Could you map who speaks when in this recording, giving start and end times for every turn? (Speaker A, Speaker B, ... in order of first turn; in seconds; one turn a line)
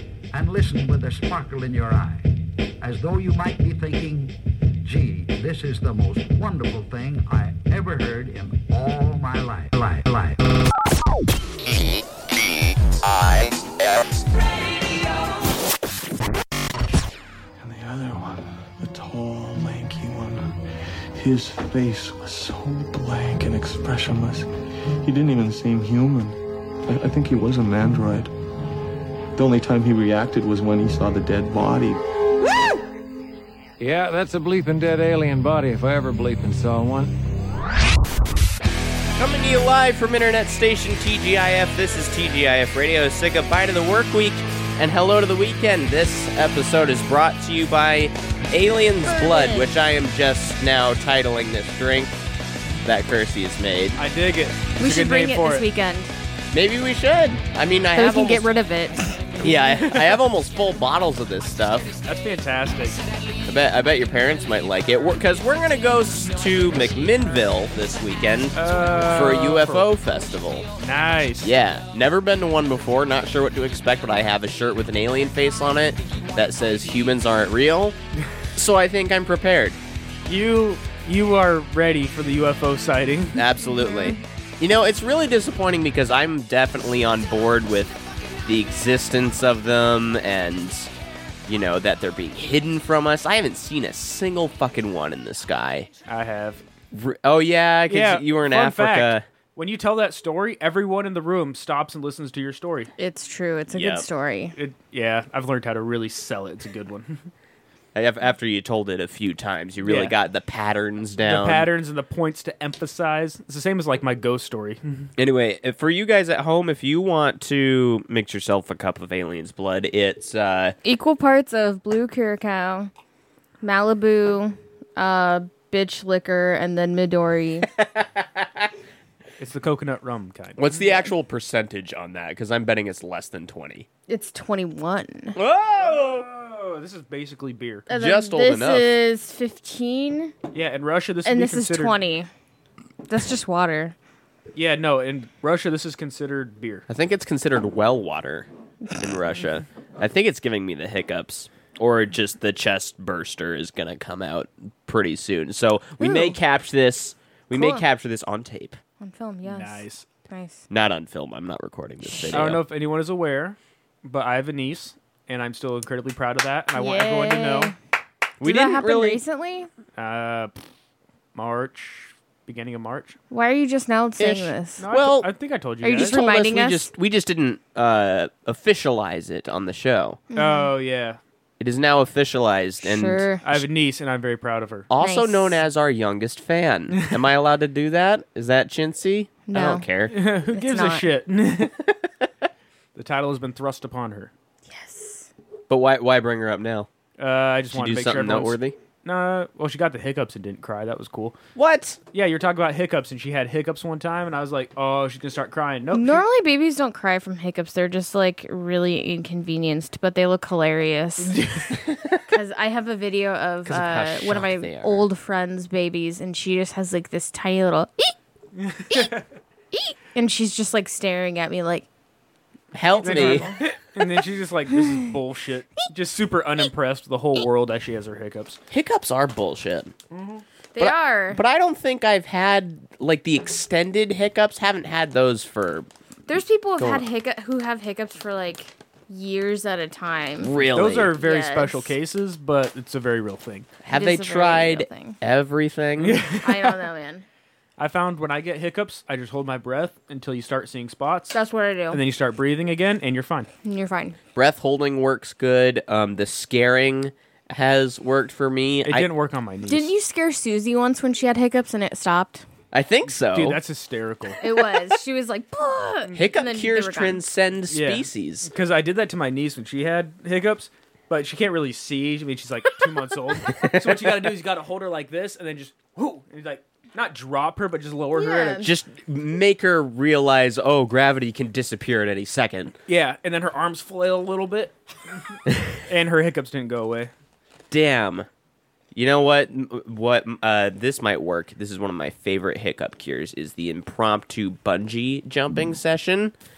Speaker A: 0.3-10.7
Speaker B: 17.6-20.6
Speaker B: 21.1-28.3
Speaker B: 29.4-32.0
Speaker C: 33.8-37.1
Speaker D: 39.2-52.2
Speaker E: 49.0-49.7
Speaker D: 52.8-54.0
Speaker F: 54.0-55.7
Speaker E: 54.8-56.1
Speaker D: 56.5-58.5
Speaker E: 57.9-59.2
Speaker D: 59.4-62.0
Speaker F: 62.0-63.0
Speaker D: 63.4-70.7
Speaker F: 68.5-69.9
Speaker F: 70.8-71.5
Speaker D: 71.4-78.0
Speaker D: 78.5-79.8
Speaker F: 80.3-83.4
Speaker D: 83.3-90.9
Speaker E: 83.7-84.2
Speaker D: 91.5-95.9
Speaker F: 96.0-96.6
Speaker D: 96.9-99.2
Speaker F: 97.9-102.9
Speaker E: 103.0-104.5
Speaker D: 103.7-104.1
Speaker F: 104.5-107.3
Speaker D: 107.9-111.7
Speaker F: 109.8-110.1
Speaker F: 111.2-115.1
Speaker D: 115.2-120.7
Speaker E: 120.8-122.9
Speaker E: 123.6-127.7
Speaker D: 127.7-128.7
Speaker F: 129.4-130.7
Speaker D: 130.6-133.9
Speaker E: 134.1-135.3
Speaker D: 135.3-136.3
Speaker F: 135.8-137.9
Speaker E: 137.9-140.3
Speaker D: 137.9-139.0
Speaker F: 140.5-142.0
Speaker E: 141.2-142.3
Speaker E: 143.1-143.9
Speaker F: 144.5-146.8
Speaker D: 146.9-158.8
Speaker E: 156.0-156.3
Speaker E: 157.5-157.8
Speaker E: 159.0-160.6
Speaker F: 159.4-160.0
Speaker D: 160.7-162.6
Speaker F: 162.3-167.7
Speaker E: 166.8-167.7
Speaker D: 168.4-169.2
Speaker E: 168.4-169.7
Speaker F: 170.0-170.6
Speaker F: 171.3-173.2
Speaker E: 173.3-174.8
Speaker D: 174.2-175.3
Speaker F: 174.8-176.2
Speaker E: 175.8-176.9
Speaker D: 176.0-180.2
Speaker E: 180.3-180.7
Speaker F: 180.3-181.2
Speaker D: 181.6-183.7
Speaker E: 182.8-183.4
Speaker F: 183.4-184.9
Speaker D: 184.9-190.1
Speaker E: 185.0-185.6
Speaker E: 189.5-189.9
Speaker F: 190.1-191.8
Speaker E: 190.5-191.0
Speaker F: 192.9-194.3
Speaker E: 194.7-195.3
Speaker D: 195.7-196.9
Speaker F: 197.2-201.3
Speaker D: 197.7-198.8
Speaker D: 201.5-202.0
Speaker F: 202.1-206.2
Speaker E: 205.9-211.3
Speaker F: 211.2-211.9
Speaker E: 212.3-218.1
Speaker D: 213.7-215.1
Speaker F: 218.6-219.2
Speaker E: 219.7-221.9
Speaker D: 222.7-223.5
Speaker E: 223.0-223.6
Speaker F: 223.0-228.6
Speaker D: 228.7-229.9
Speaker F: 230.1-230.4
Speaker E: 230.7-231.4
Speaker D: 230.8-235.9
Speaker E: 236.3-240.6
Speaker D: 236.8-237.0
Speaker D: 240.4-241.1
Speaker F: 240.7-243.7
Speaker E: 241.1-241.9
Speaker D: 243.8-246.2
Speaker E: 243.9-245.2
Speaker F: 246.0-246.7
Speaker E: 246.4-247.2
Speaker F: 247.8-251.3
Speaker E: 251.3-252.0
Speaker F: 251.9-253.5
Speaker E: 253.6-254.2
Speaker D: 254.3-259.1
Speaker F: 258.8-259.9
Speaker E: 259.7-262.4
Speaker D: 262.7-263.6
Speaker F: 263.3-264.4
Speaker E: 264.4-267.2
Speaker D: 266.1-268.5
Speaker F: 267.7-278.7
Speaker D: 273.5-274.3
Speaker E: 278.1-278.7
Speaker D: 278.6-282.7
Speaker F: 282.9-287.1
Speaker D: 285.5-285.7
Speaker D: 287.7-288.3
Speaker D: 288.9-296.3